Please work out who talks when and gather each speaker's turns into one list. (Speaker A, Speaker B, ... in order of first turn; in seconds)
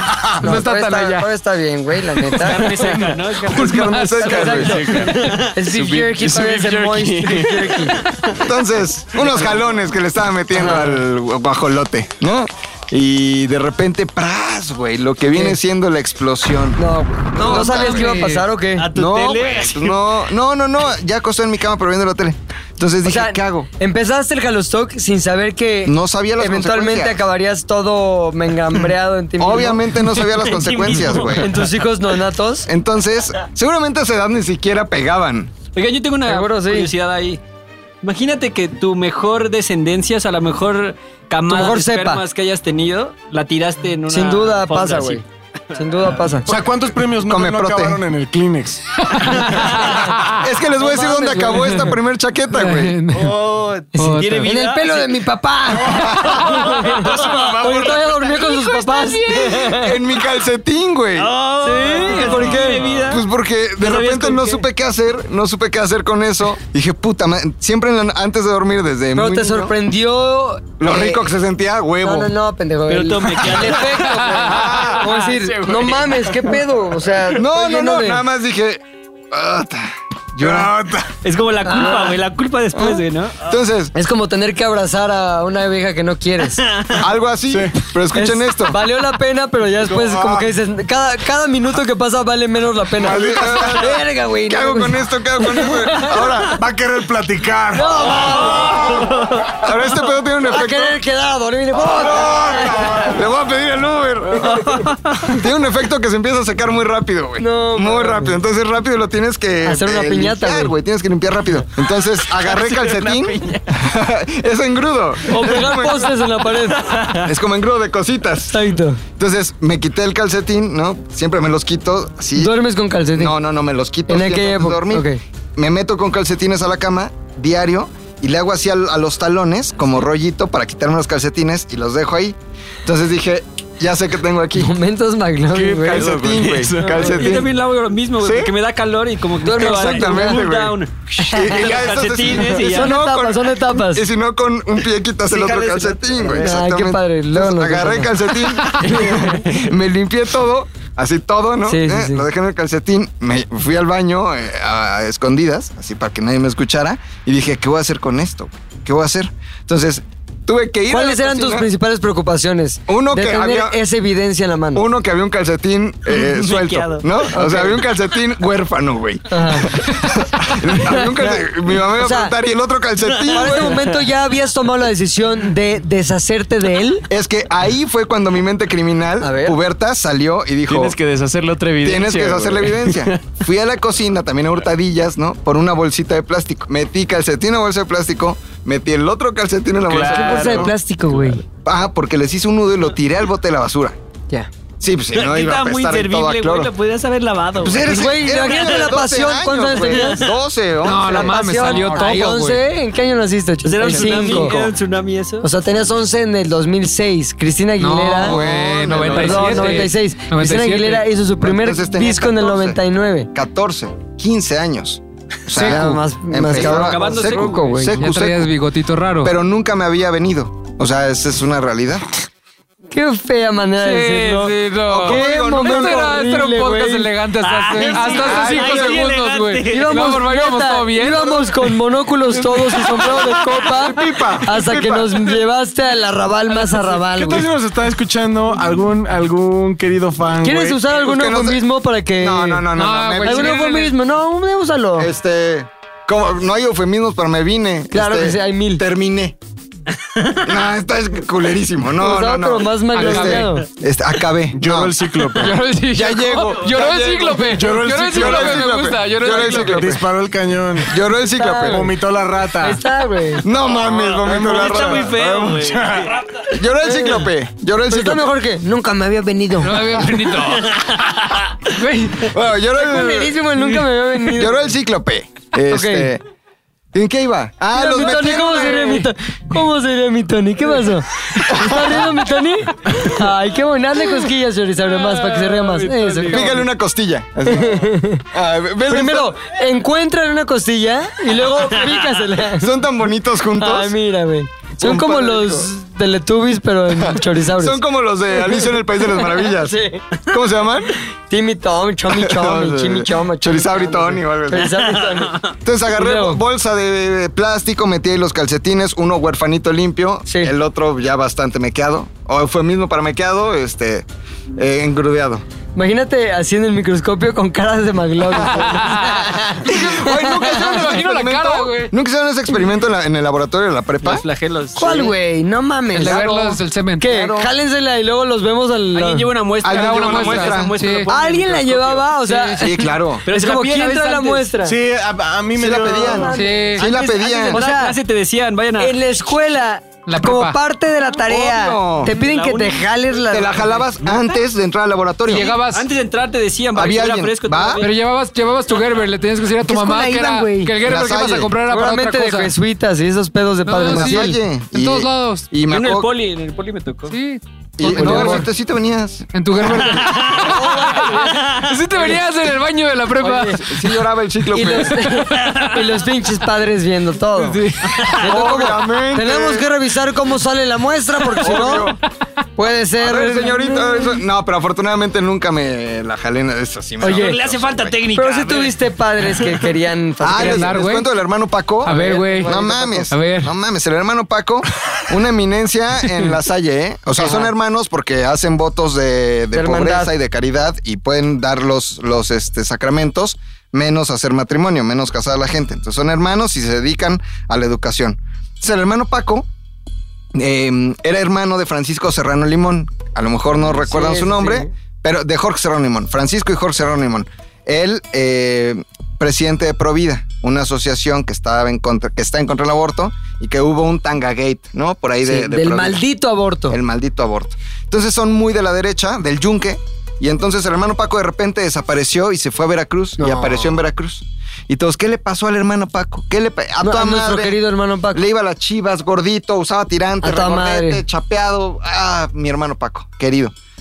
Speaker A: 0.4-2.9, 4.1-8.0, 10.6-10.8, 15.3-15.6, 16.8-18.9, 23.0-29.9, 31.3-32.7, 36.3-36.9, 41.5-42.2, 44.1-46.5, 49.6-50.1, 50.8-51.9, 53.9-60.0, 61.6-62.8, 69.1-71.3, 72.0-78.2, 81.6-82.2, 83.9-86.7, 88.1-96.3, 97.7-99.3, 100.4-103.1, 107.4-108.4, 109.6-110.8, 115.3-117.1, 118.5-119.0, 122.4-123.3, 124.1-125.2, 134.6-136.2, 139.4-140.4, 141.2-141.6, 142.4-144.1, 146.3-149.3, 151.7-152.3, 160.9-164.9, 167.3-167.8, 169.3-169.8, 170.9-171.4, 172.0-172.3, 173.3-177.1, 179.2-179.6, 190.1-191.4, 197.7-200.3, 200.9-204.6, 205.4-208.4, 208.9-213.3, 215.5-218.0, 222.9-227.1, 227.8-228.2, 229.7-237.5, 240.4-242.7, 243.2-245.1, 247.9-248.8, 252.0-253.7, 261.3-261.9, 262.6-263.4, 266.8-267.3, 267.9-270.4, 272.8-274.7, 275.7-276.1, 277.7-286.6, 287.4-288.2, 288.9-292.7, 293.6-297.8, 298.4-300.1, 301.3-306.4, 310.3-310.5, 315.8-320.7, 324.8-326.4, 327.0-329.3, 331.1-334.8, 335.8-337.9, 338.8-343.9, 349.6-350.8, 351.7-354.4, 357.8-358.4, 360.3-362.2, 363.2-363.6, 364.5-371.9, 372.6-374.2, 377.0-377.4, 378.1-380.9, 381.9-383.1, 387.2-387.5, 389.5-390.1, 403.6-404.7, 415.2-416.8, 423.2-423.8, 426.8-428.2, 430.2-431.0
Speaker B: 0.4-1.3, 2.1-5.1, 17.4-18.4, 49.0-50.4, 52.5-54.5, 58.5-59.6, 74.2-74.9, 200.8-202.7, 207.8-211.1, 215.6-216.0, 217.9-219.3, 223.8-231.7, 242.7-244.0, 252.9-253.6, 255.4-259.9, 269.6-271.0, 271.7-272.3, 318.4-321.9, 325.9-327.1, 329.6-331.1, 332.2-332.7, 336.3-336.9, 340.1-340.6, 345.3-345.9, 347.8-352.5, 353.7-355.5, 357.1-358.5, 359.3-364.0, 365.1-365.8, 367.3-368.2, 380.3-381.1, 381.8-382.6, 383.1-383.5
Speaker C: 2.4-5.5, 18.8-20.0, 30.4-31.5, 35.8-37.4, 38.0-45.2, 53.1-55.2, 56.0-58.2, 61.2-63.2, 63.8-64.6, 72.9-76.2, 81.2-83.6, 86.7-87.0, 98.9-99.4, 104.4-105.2, 112.3-113.6, 116.8-117.2, 136.9-143.0, 145.3-146.5, 166.1-167.1, 173.2-173.7, 195.1-198.9, 199.8-200.3, 203.6-205.5, 216.4-217.9, 227.4-229.9, 264.0-266.2, 285.0-286.7, 324.0-325.1, 328.9-332.2, 333.2-334.5, 337.5-338.9, 342.1-342.9, 345.3-347.9, 355.7-357.2, 361.2-361.7, 377.1-378.8
Speaker D: 3.4-4.9, 8.3-16.8, 17.3-18.1, 18.9-23.7, 25.9-27.2, 29.4-31.5, 32.7-35.5, 47.3-48.0, 50.3-53.0, 59.7-61.3, 62.4-69.8, 70.8-72.3, 77.3-81.0, 82.7-83.9, 87.0-88.8, 93.0-96.6, 99.5-101.0, 101.9-116.1, 117.2-118.6, 119.2-122.5, 123.1-134.7, 135.5-137.5, 138.2-138.5, 139.6-161.7, 162.9-163.8, 164.7-173.9, 177.1-181.0, 181.8-190.8, 191.6-193.9, 194.8-196.7, 197.6-201.4, 203.9-204.7, 208.2-209.8, 211.4-212.8, 213.3-218.6, 219.2-222.1, 224.8-226.1, 227.8-229.1, 233.7-235.2, 240.9-241.6, 242.2-243.7, 245.0-249.4, 250.4-255.0, 255.9-260.0, 260.9-261.9, 263.4-265.8, 266.4-268.3, 272.2-273.4, 274.3-276.2, 276.9-279.0, 281.5-282.0, 286.3-289.4, 292.6-293.9, 294.8-295.7, 296.9-301.0, 302.1-305.0, 305.5-315.4, 319.6-324.2, 326.0-327.5, 329.6-330.8, 332.6-333.2, 335.6-337.6, 341.2-342.1, 343.3-345.6, 346.7-347.8, 350.8-351.5, 353.9-356.1, 357.8-360.0, 363.4-365.1, 368.2-369.7, 371.4-372.0, 373.0-378.0, 380.2-399.5, 400.4-416.1, 416.7-427.6, 428.1-433.5
Speaker E: 4.8-5.1, 5.6-7.8, 57.7-58.0, 135.5-137.0, 180.7-183.2, 189.8-191.3
Speaker F: 5.9-7.2, 46.4-48.8, 57.3-58.0, 80.4-81.1, 87.5-87.8, 89.8-90.4, 93.0-93.9, 96.4-98.9, 102.1-103.0, 233.9-234.4, 236.5-240.8, 254.5-255.7, 257.4-260.9, 261.6-262.8, 264.2-266.1, 334.6-336.4